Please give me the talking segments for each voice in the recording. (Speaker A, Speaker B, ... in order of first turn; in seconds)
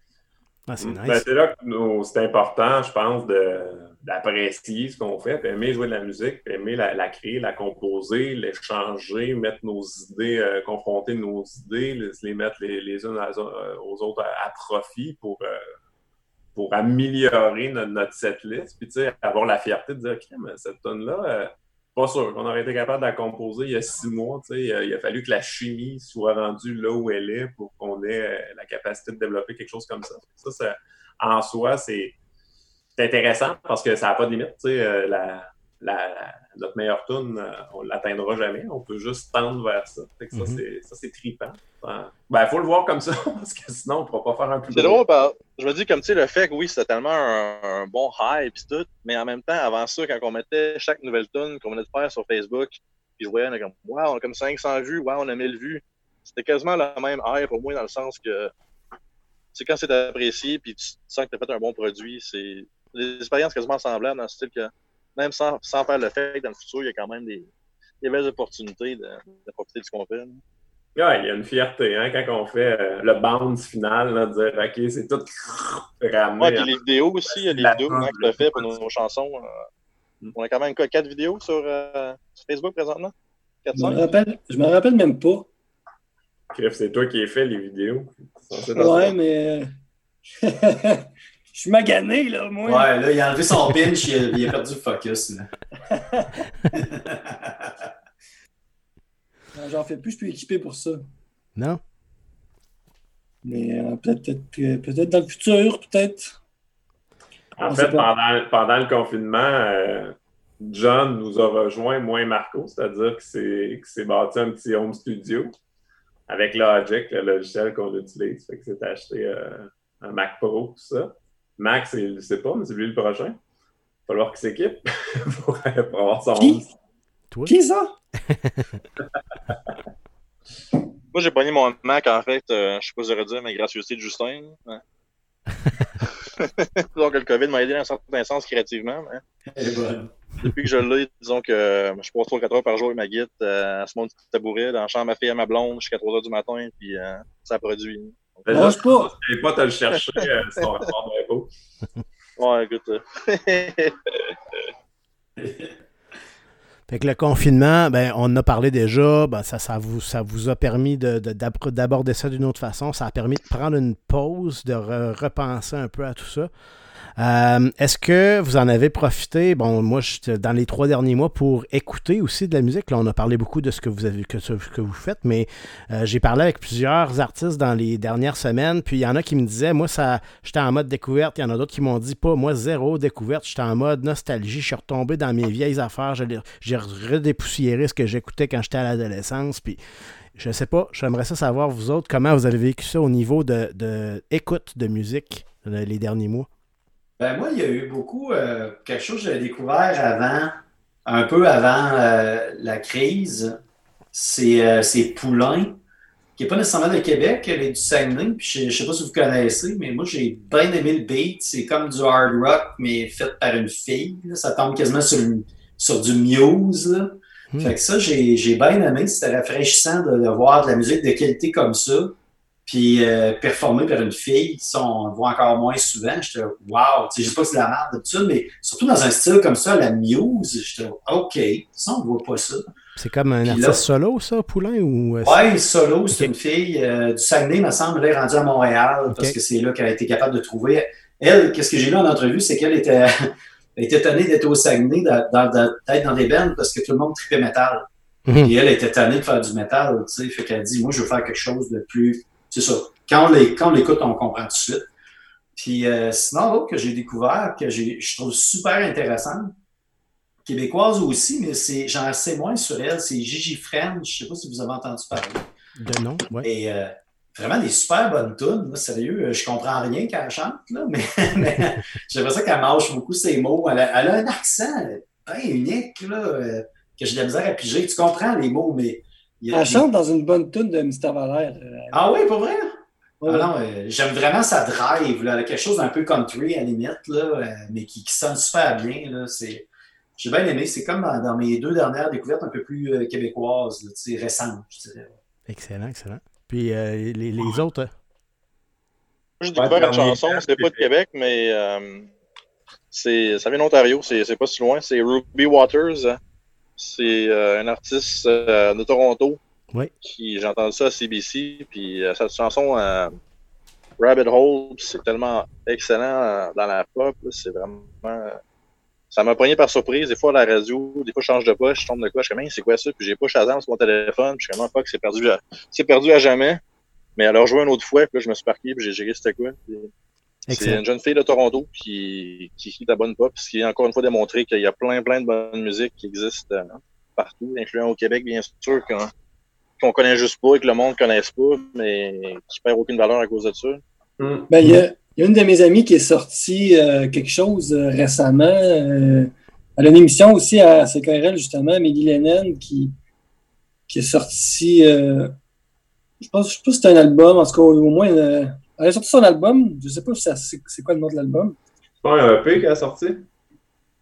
Speaker A: 0.7-1.2, 40.3-40.6, 101.5-101.8, 128.3-128.8, 156.9-166.5, 167.2-189.8, 190.3-196.5, 217.5-217.8, 233.0-235.4, 239.1-239.4, 248.2-248.5, 265.8-266.5, 295.5-297.9, 330.5-330.8
Speaker B: 0.8-15.6, 16.5-32.1, 33.0-45.0, 71.0-78.8, 86.5-89.2, 107.6-115.5, 116.3-123.4, 124.1-126.7, 148.5-151.5, 299.6-300.9, 344.2-344.5, 362.0-363.3
Speaker C: 44.7-58.5, 59.5-67.5, 68.0-70.4, 76.4-79.7, 80.3-83.1, 83.6-84.1, 131.1-134.8, 136.4-139.2, 140.4-148.7, 152.4-154.0, 299.4-302.1, 302.9-306.2, 306.8-309.4, 310.1-313.1, 314.0-318.4, 319.1-326.6, 327.2-329.9, 330.5-339.1, 339.8-343.8
Speaker D: 83.7-85.5, 88.7-89.7, 90.4-92.9, 95.9-96.3, 99.5-101.0, 103.4-106.3, 107.6-108.0, 126.3-126.6, 127.5-127.9, 148.5-149.1, 279.5-282.0, 283.2-283.5, 344.5-352.9, 353.9-355.3, 356.2-361.6
Speaker E: 92.6-95.5, 96.7-97.9, 139.5-140.1, 155.4-155.7, 197.2-203.6, 204.1-205.8, 206.3-232.7, 233.4-233.8, 235.2-247.8, 248.4-254.9, 255.6-259.5, 260.4-265.4, 266.4-279.8, 281.9-289.6, 290.2-295.1